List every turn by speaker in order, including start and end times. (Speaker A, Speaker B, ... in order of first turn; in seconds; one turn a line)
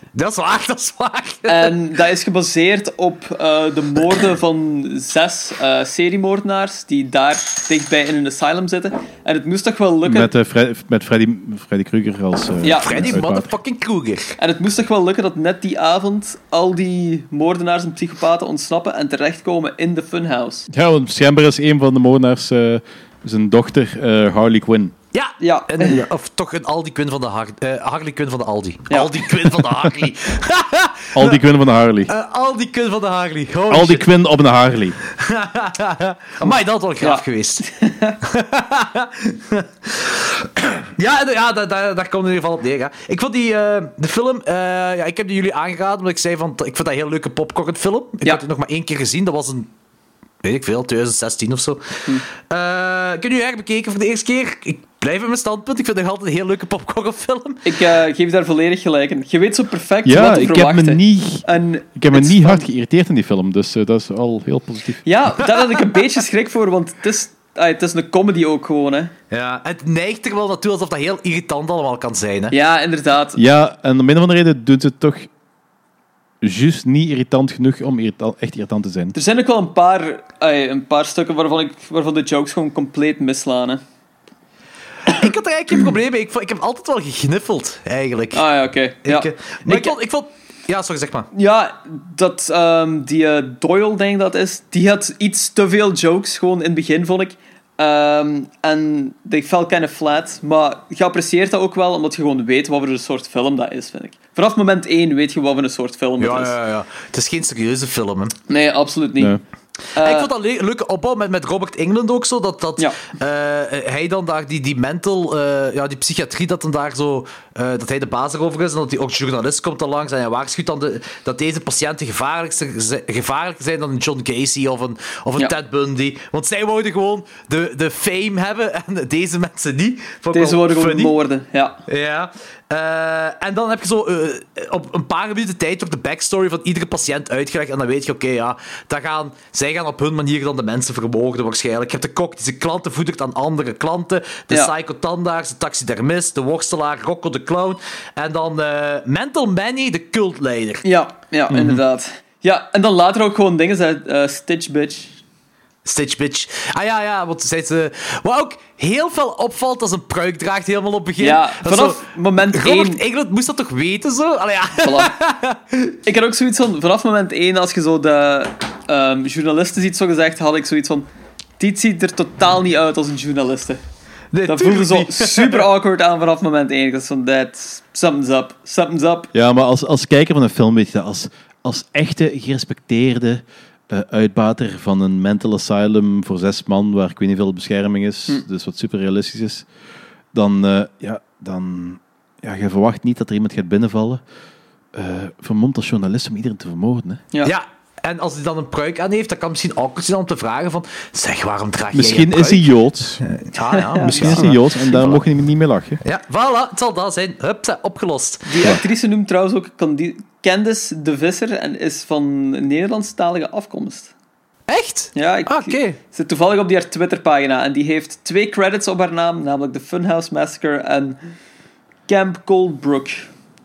Speaker A: 0.1-1.8
Speaker B: 1.5-10.3
Speaker C: 10.0-13.5
Speaker B: 12.6-13.2
Speaker A: 12.8-14.4
Speaker B: 14.4-20.7
Speaker C: 20.7-24.9
Speaker A: 25.1-31.4
Speaker B: 25.4-26.1
Speaker B: 28.9-29.5
Speaker C: 31.1-32.1
Speaker A: 32.1-34.1
Speaker C: 33.7-35.0
Speaker A: 35.1-37.6
Speaker B: 37.0-38.2
Speaker A: 38.2-49.7
Speaker A: 50.4-57.8
Speaker B: 57.6-62.7
Speaker C: 60.0-65.0
Speaker B: 65.0-69.1
Speaker A: 69.3-72.6
Speaker B: 72.5-73.4
Speaker C: 73.4-75.3
Speaker C: 76.4-79.2
Speaker B: 79.2-83.8
Speaker A: 85.0-88.4
Speaker B: 88.3-89.9
Speaker A: 89.0-91.3
Speaker B: 91.3-106.5
Speaker A: 106.2-108.3
Speaker B: 108.5-109.4
Speaker A: 110.0-131.2
Speaker B: 110.0-110.3
Speaker B: 130.3-131.8
Speaker A: 131.9-150.8
Speaker B: 150.8-155.2
Speaker A: 155.8-166.0
Speaker B: 161.2-163.0
Speaker B: 164.8-165.1
Speaker B: 166.1-171.1
Speaker B: 171.6-173.8
Speaker A: 174.3-175.7
Speaker B: 174.5-179.3
Speaker C: 179.3-189.7
Speaker C: 190.3-194.2
Speaker C: 194.9-197.2
Speaker A: 197.4-202.7
Speaker C: 201.9-203.2
Speaker A: 203.2-205.2
Speaker B: 203.7-204.5
Speaker C: 204.0-206.0
Speaker A: 206.0-208.7
Speaker B: 208.5-214.1
Speaker A: 214.7-216.0
Speaker B: 215.2-221.2
Speaker B: 222.1-223.3